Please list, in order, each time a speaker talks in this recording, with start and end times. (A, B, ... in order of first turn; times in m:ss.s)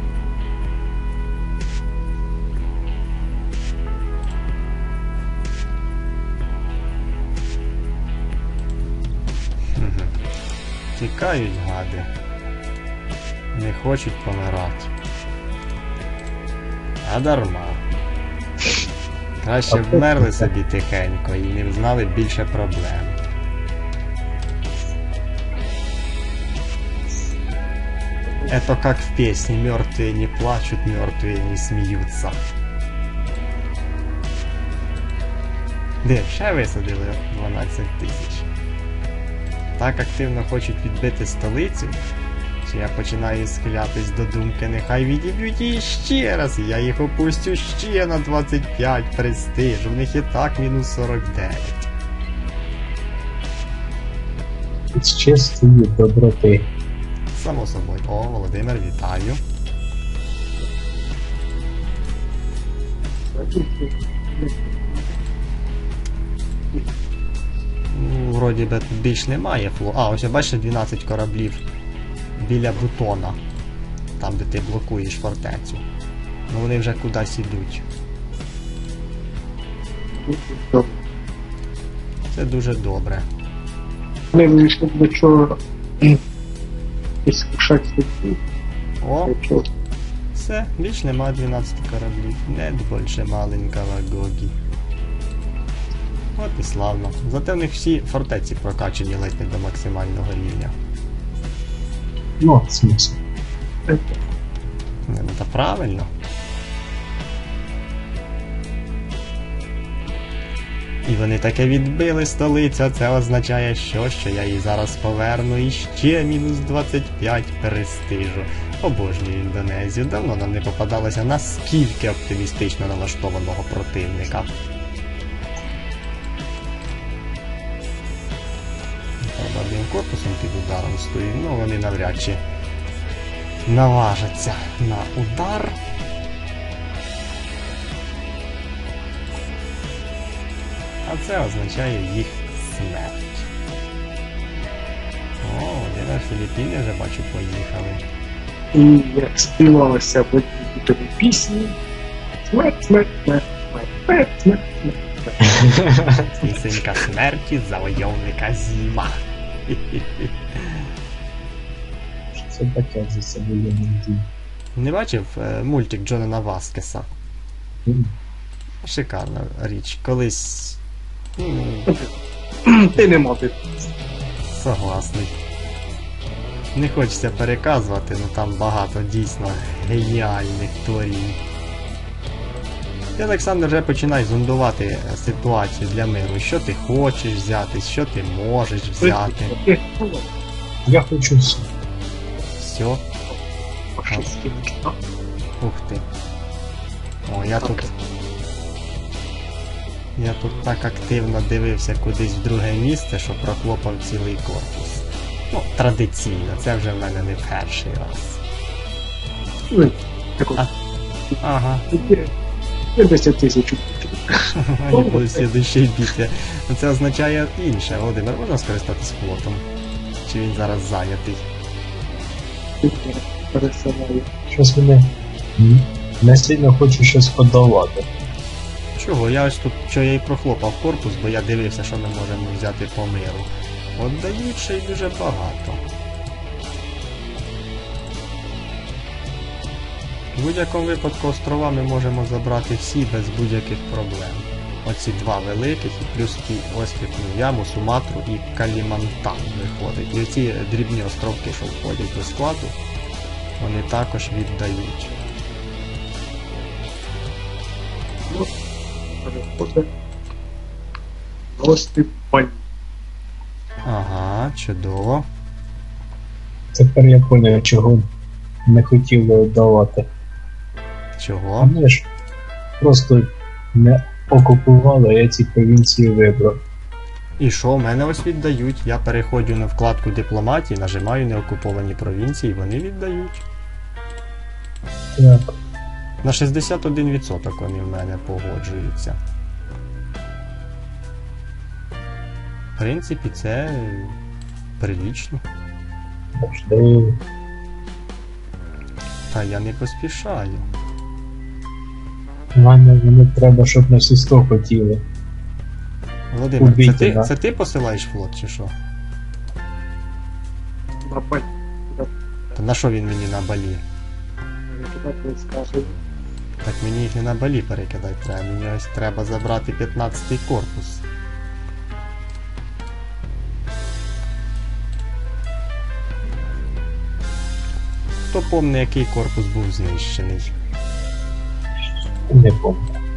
0:09.8-0:10.2 A
0:11.0-0:12.1 A
0:13.5-0:14.9 A
0:17.0-0:17.8 A
0:19.4-0:23.2 A
0:19.7-0:20.5 B
0:28.5-0:32.4 A
0:36.0-0:38.5 A
0:39.8-0:42.0 A
0:42.6-0:51.9 A
0:54.9-0:56.7 B
0:57.3-0:59.4 A
1:03.3-1:05.2 C
1:07.9-1:11.6 A
1:12.4-1:13.4 A
1:14.2-1:15.8 A
1:16.5-1:17.8 A
1:20.2-1:21.0 C
1:22.3-1:23.3 A
1:24.3-1:26.2 C
1:27.2-1:28.4 C
1:29.0-1:29.3 A
1:29.2-1:29.7 C
1:30.4-1:34.6 A
1:36.4-1:40.8 A
1:42.4-1:43.2 B
1:43.9-1:44.2 C
1:45.1-1:46.1 A
1:51.0-2:04.5 A
2:09.2-2:12.4 A
2:13.7-2:15.8 A
2:21.0-2:23.5 A
2:25.4-2:28.0 A
2:28.7-2:31.8 C
2:32.5-2:36.0 C
2:35.5-2:36.1 B
2:36.3-2:40.9 A
2:42.5-2:44.3 B
2:44.8-2:47.1 A
2:47.9-2:48.1 B
2:48.8-2:50.8 A
2:51.4-2:52.0 A
2:52.6-2:53.6 C
2:54.5-2:55.4 A
2:56.7-3:01.4 A
3:03.2-3:09.6 A
3:09.0-3:10.3 C
3:10.9-3:11.7 B
3:12.6-3:13.0 A
3:14.0-3:15.0 C
3:15.6-3:16.1 A
3:17.3-3:17.9 A
3:17.6-3:17.9 C
3:20.2-3:28.4 A
3:29.7-3:30.6 C
3:31.4-3:31.9 A
3:31.9-3:32.3 C
3:33.0-3:35.5 C
3:34.6-3:39.6 A
3:40.2-3:41.4 A
3:42.8-3:44.3 C
3:44.5-3:48.1 B
3:49.0-3:55.8 A
4:00.4-4:12.8 A
4:13.6-4:15.1 A
4:19.2-4:19.9 C
4:21.5-4:22.6 C
4:23.8-4:25.3 A
4:26.7-4:28.1 B
4:28.7-4:30.1 B
4:31.2-4:31.7 A
4:31.6-4:32.1 B
4:32.8-4:36.6 B
4:37.4-4:43.4 A
4:45.1-4:45.5 B
4:46.2-4:49.2 A
4:52.8-4:54.2 A
4:54.8-4:55.4 A
4:56.4-4:57.2 B
4:59.3-5:00.7 A
5:02.6-5:05.0 B
5:06.3-5:08.7 A
5:06.6-5:07.3 B
5:11.0-5:12.6 C
5:12.6-5:13.8 A
5:14.7-5:16.0 C
5:16.6-5:21.0 A
5:28.3-5:30.5 A
5:32.3-5:33.0 B